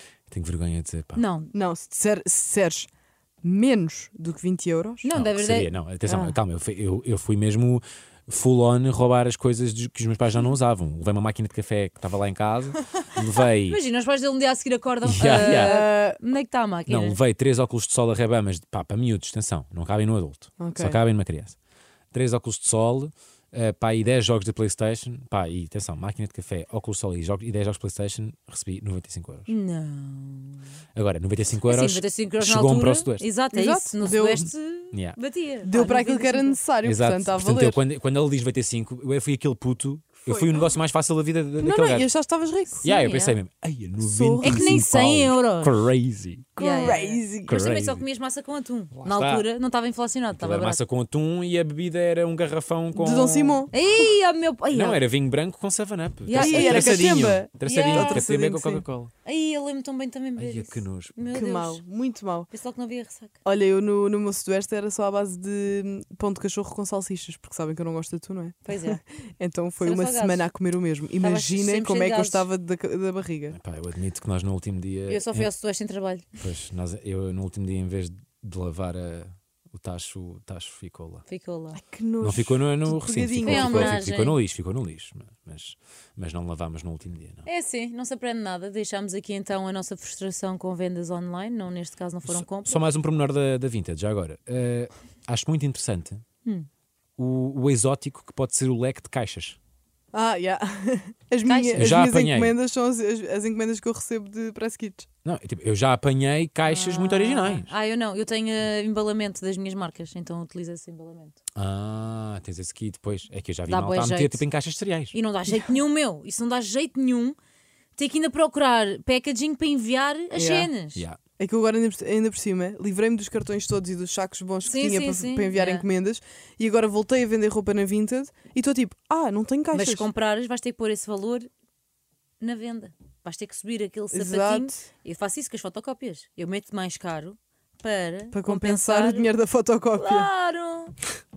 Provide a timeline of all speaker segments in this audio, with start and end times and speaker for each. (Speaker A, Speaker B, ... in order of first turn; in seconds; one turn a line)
Speaker A: 0.3-1.2
Speaker B: 1.1-1.5
Speaker C: 1.5-2.9
Speaker C: 3.4-5.0
Speaker B: 5.0-5.7
Speaker A: 5.1-13.8
Speaker C: 6.1-6.4
Speaker B: 13.7-17.2
Speaker A: 15.0-15.8
Speaker C: 15.2-16.2
Speaker A: 16.9-21.6
Speaker C: 20.6-21.0
Speaker A: 22.1-29.5
Speaker B: 29.5-30.6
Speaker A: 30.9-33.2
Speaker B: 31.6-36.6
Speaker C: 33.5-34.5
Speaker A: 34.9-35.2
Speaker C: 35.6-37.8
Speaker A: 36.8-42.1
Speaker C: 40.3-40.6
Speaker C: 41.6-42.8
Speaker A: 42.8-46.5
Speaker B: 42.8-43.4
Speaker C: 44.0-44.9
Speaker B: 44.4-45.8
Speaker C: 46.5-47.6
Speaker B: 46.6-50.8
Speaker A: 47.5-48.0
Speaker A: 48.9-49.5
Speaker A: 50.3-53.6
Speaker C: 52.9-53.7
Speaker B: 53.7-55.0
Speaker A: 54.7-59.1
Speaker B: 56.2-58.3
Speaker C: 56.3-58.8
Speaker B: 59.2-61.8
Speaker A: 60.4-61.1
Speaker C: 61.3-62.5
Speaker B: 62.5-63.3
Speaker C: 63.4-73.6
Speaker B: 68.6-69.0
Speaker B: 69.8-70.5
Speaker B: 71.2-72.5
Speaker A: 73.5-75.5
Speaker B: 75.1-76.3
Speaker A: 76.4-81.2
Speaker B: 81.3-81.8
Speaker C: 81.7-84.0
Speaker A: 82.2-87.4
Speaker B: 83.4-84.4
Speaker B: 87.5-92.8
Speaker A: 92.2-96.2
Speaker A: 97.2-99.6
Speaker C: 100.1-105.1
Speaker B: 101.4-101.9
Speaker A: 101.7-102.5
Speaker A: 105.2-107.7
Speaker B: 106.7-111.4
Speaker A: 111.5-115.2
Speaker B: 113.7-114.4
Speaker B: 115.1-117.3
Speaker B: 118.0-121.0
Speaker C: 120.3-120.7
Speaker C: 121.4-130.1
Speaker B: 124.6-125.8
Speaker B: 129.7-131.5
Speaker B: 132.4-139.3
Speaker C: 134.1-134.8
Speaker C: 138.3-140.3
Speaker B: 140.0-141.0